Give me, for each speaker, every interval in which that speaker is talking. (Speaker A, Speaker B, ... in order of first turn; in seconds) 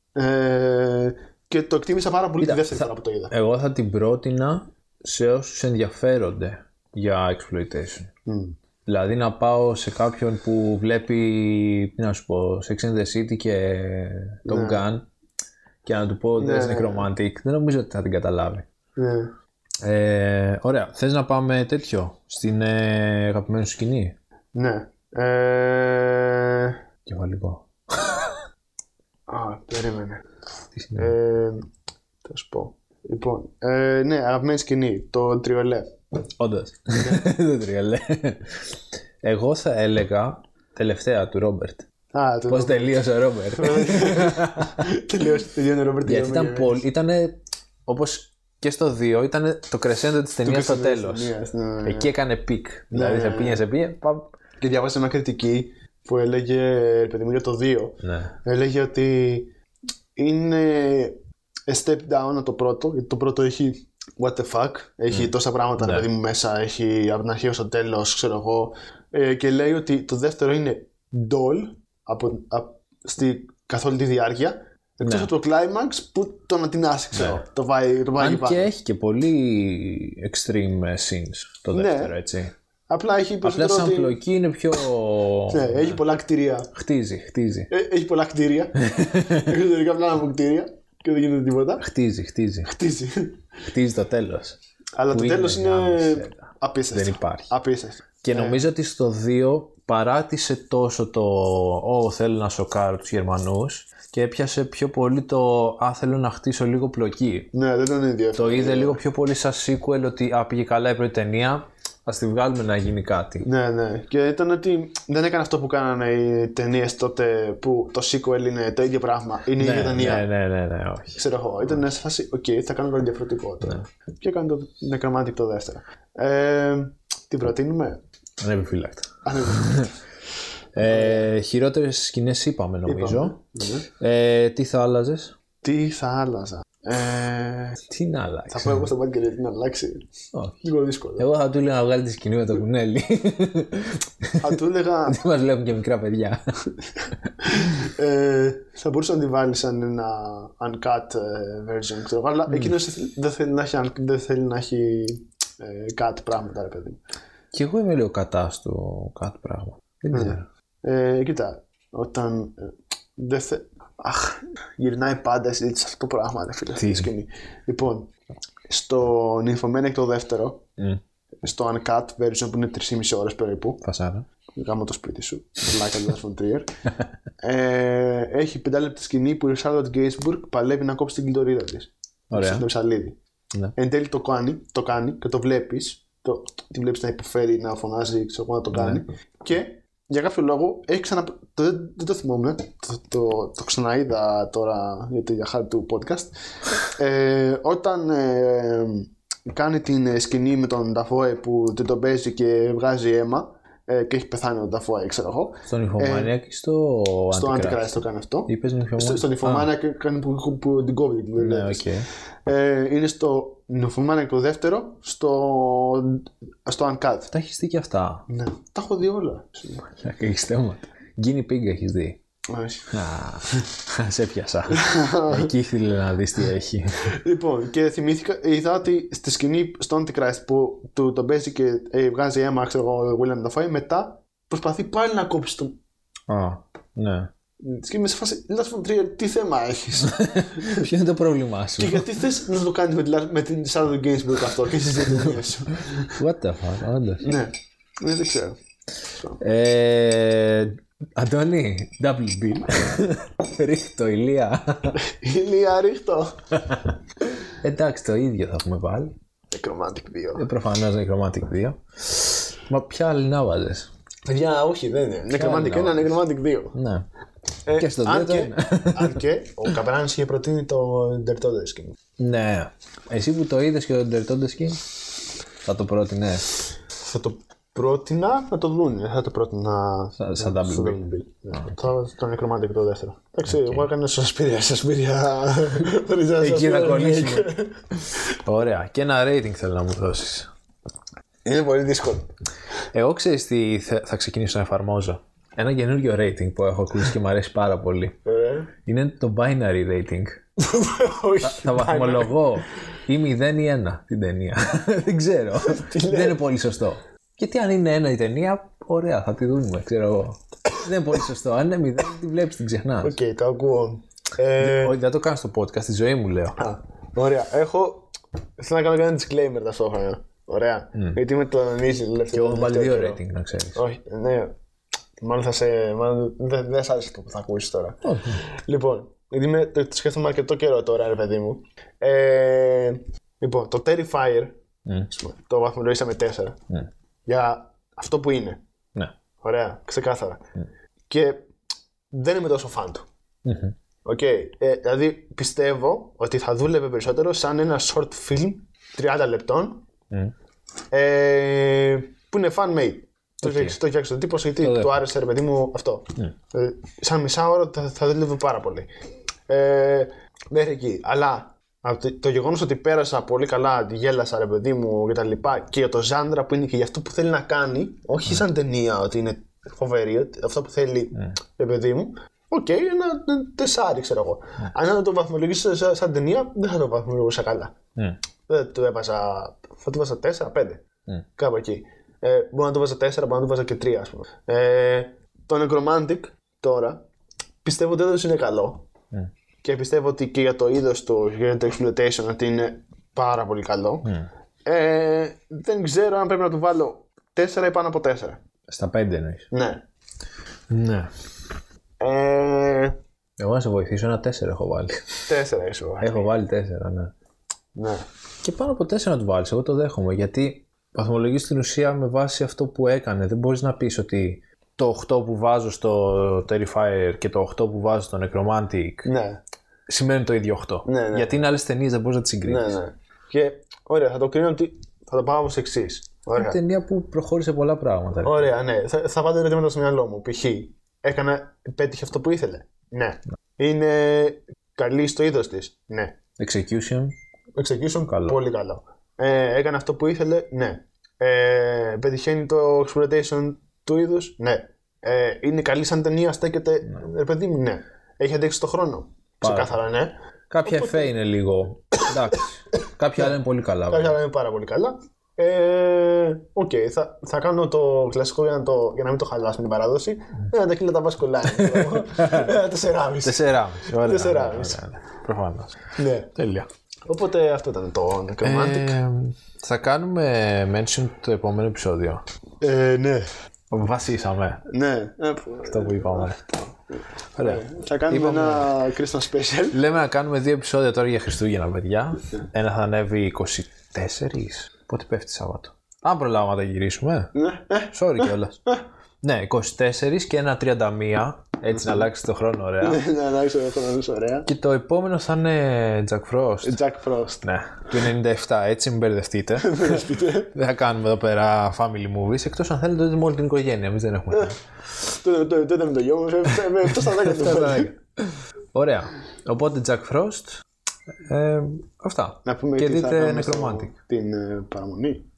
Speaker A: 0.1-3.3, 8.2-8.6, 14.4-14.8, 16.4-17.1, 19.0-19.3, 24.5-26.8, 29.3-30.2, 30.9-31.7, 32.2-36.0, 37.0-37.2, 42.1-43.0, 43.5-46.8, 50.4-52.1, 52.9-53.6, 54.6-59.5, 60.1-78.7, 81.7-82.2, 82.9-84.2, 85.5-86.7, 87.7-91.8, 92.6-93.4, 95.0-98.6, 107.5-109.0, 113.4-120.3, 121.1-128.0, 129.2-129.9, 130.8-131.3, 132.8-133.9, 135.6-137.8, 138.5-140.1, 140.6-141.3, 144.4-145.2, 147.4-157.0, 160.1-168.1, 168.7-170.6, 171.4-173.8, 174.6-176.7, 177.4-183.2, 183.7-206.3, 207.3-211.9, 212.4-217.3, 218.3-219.9, 222.5-222.9, 224.7-225.5, 227.0-235.8, 237.6-240.8, 241.8-246.2, 247.2-248.6, 255.0-256.6, 259.5-260.5, 264.3-266.8, 267.6-272.0, 276.9-288.2, 291.4-292.3, 298.2-298.7, 300.6-302.3, 305.6-306.4, 313.0-314.9, 316.6-323.2, 323.7-324.5, 325.2-336.6, 337.3-338.6, 339.4-340.4, 341.1-341.5, 342.1-343.0, 344.0-349.8, 350.9-358.9, 359.5-377.7, 378.5-380.8, 381.4-387.0, 387.6-388.9, 389.6-394.1, 394.6-398.4, 399.5-399.8, 402.0-402.9, 405.3-406.3, 407.7-408.0, 419.0-419.4, 420.8-421.3, 422.4-426.6, 428.2-436.1, 437.6-450.1, 450.6-451.1, 453.9-464.8, 465.9-466.4, 467.1-469.0, 472.6-473.3, 474.6-479.8, 487.3-488.8, 491.7-492.1, 492.8-494.5, 496.6-497.4, 499.6-500.6, 504.3-507.9, 512.4-515.3
Speaker B: 2.4-8.1, 8.8-15.1, 15.8-18.6, 19.8-24.2, 27.1-28.4, 30.7-31.1, 36.4-41.8, 42.5-44.8, 46.0-51.3, 51.8-54.3, 58.0-58.3, 65.1-66.1, 75.0-75.3, 77.1-77.4, 78.2-82.5, 83.4-86.0, 86.7-87.7, 88.8-89.6, 91.8-92.7, 93.7-94.6, 95.1-97.5, 98.2-107.5, 108.3-113.5, 119.6-121.2, 128.4-129.9, 130.7-133.4, 134.0-135.3, 137.8-138.8, 140.3-144.5, 145.1-146.4, 152.5-152.8, 157.5-160.4, 166.8-167.1, 173.8-174.2, 182.3-182.7, 188.7-189.0, 205.7-209.7, 211.3-212.1, 217.3-218.2, 219.8-222.2, 222.9-227.2, 236.3-237.3, 240.0-242.1, 245.1-245.4, 246.2-247.3, 249.4-255.0, 256.5-259.1, 260.3-263.9, 265.3-266.1, 266.7-267.1, 267.7-269.2, 272.2-274.9, 275.6-276.5, 280.2-281.7, 283.5-283.9, 286.4-290.5, 292.9-298.2, 298.8-300.4, 301.4-313.1, 314.6-316.6, 322.3-323.8, 328.0-328.4, 343.4-343.7, 353.4-353.8, 354.6-355.0, 394.0-394.3, 398.7-399.5, 400.7-401.1, 403.4-405.2, 406.0-407.1, 408.4-419.1, 419.9-422.8, 426.4-428.5, 436.4-437.1, 438.1-438.4, 449.4-449.8, 450.5-454.2, 461.5-462.5, 463.2-466.7, 468.4-472.2, 473.7-474.6, 475.6-476.4, 477.3-478.7, 479.7-487.3, 487.9-488.6, 489.2-493.0, 494.4-496.8, 497.4-504.6, 506.9-510.6, 511.2-513.9